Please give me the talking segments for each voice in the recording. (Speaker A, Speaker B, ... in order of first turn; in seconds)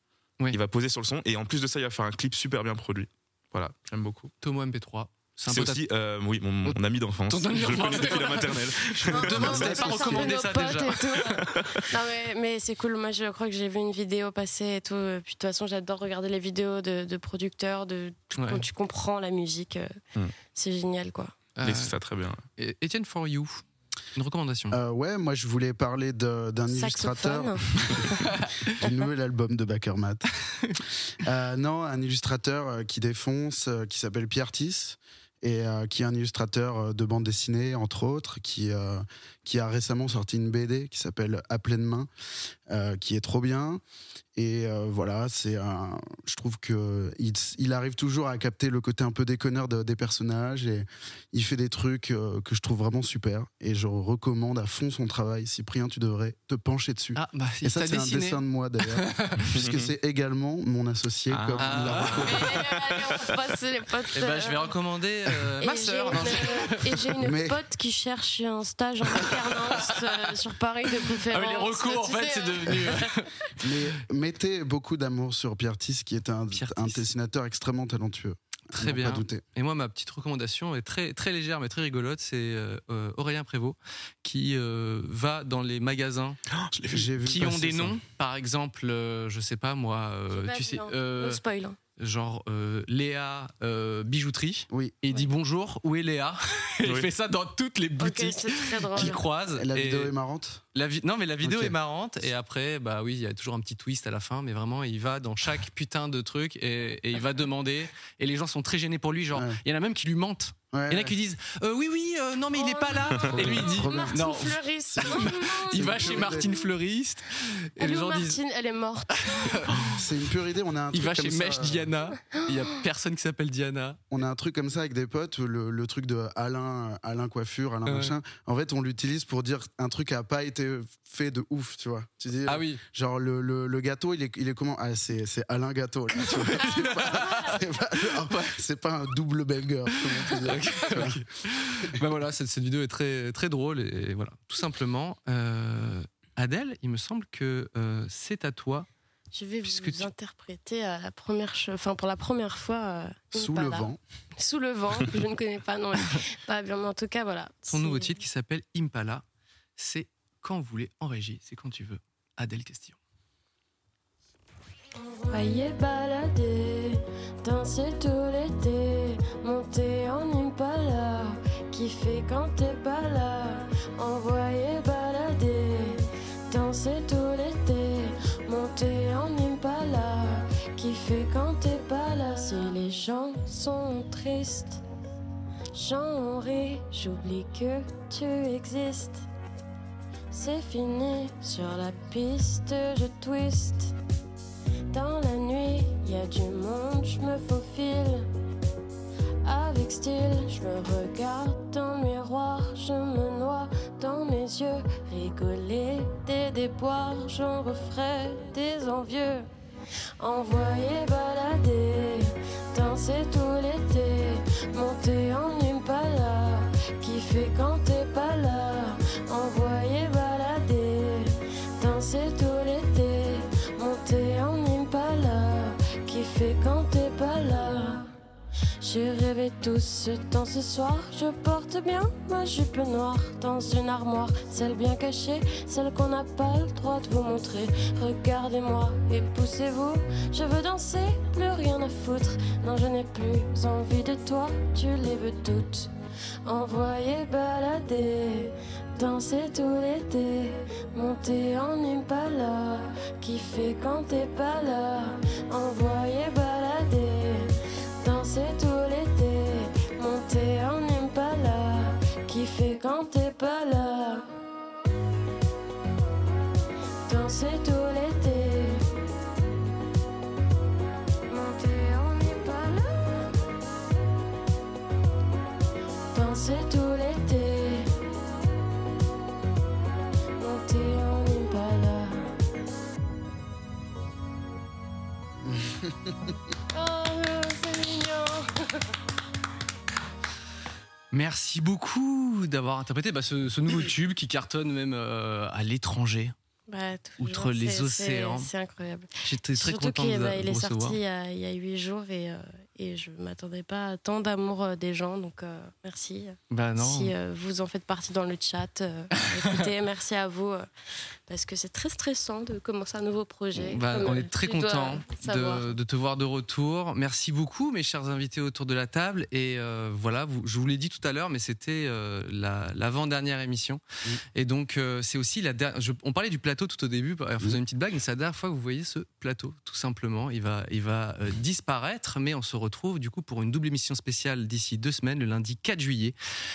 Speaker A: 0.5-4.3, 5.5-10.4, 11.1-11.8, 21.6-22.4, 59.5-59.9, 61.3-62.5, 63.0-63.4, 86.5-87.1, 96.8-97.1
Speaker B: 4.4-5.8, 6.6-11.4, 18.4-18.6, 21.6-21.9, 22.6-23.6, 24.1-24.8, 28.0-28.8, 30.5-30.8, 57.1-59.5, 61.6-63.3, 64.1-67.0, 69.1-70.3, 70.9-73.3, 76.5-77.1, 78.7-86.4, 87.2-91.4, 92.0-100.1, 100.7-118.4, 119.2-120.0, 120.9-124.0, 127.8-128.2, 132.5-132.8, 136.2-137.6, 138.3-138.5, 140.0-148.9, 149.6-150.1, 157.7-159.2, 159.8-163.0, 291.1-296.3, 297.2-298.5, 299.2-301.0, 306.5-307.1, 309.2-309.6, 313.6-323.8, 324.3-336.1
Speaker C: 9.1-19.9, 20.5-21.3, 26.7-28.2, 62.2-64.7, 65.6-73.2, 90.3-91.8, 98.0-99.2, 112.5-116.6, 117.8-119.6, 149.3-158.2, 165.3-184.8, 185.7-189.2, 190.3-193.9, 194.9-198.3, 199.4-209.5, 210.2-228.1, 228.8-245.9, 246.4-264.3, 267.1-268.8, 271.3-273.3, 276.1-277.9, 280.4-282.3, 286.7-288.9, 296.7-310.6, 311.3-315.7
Speaker D: 24.7-28.1, 28.7-30.2, 31.2-42.1, 42.7-43.8, 44.4-62.5, 67.2-67.6, 73.6-79.4, 86.9-88.0, 94.7-95.0, 99.0-100.6, 101.4-101.8, 109.3-109.6, 110.7-111.1, 113.3-114.3, 114.9-116.5, 119.9-121.9, 124.1-141.2, 153.3-154.0, 285.5-286.3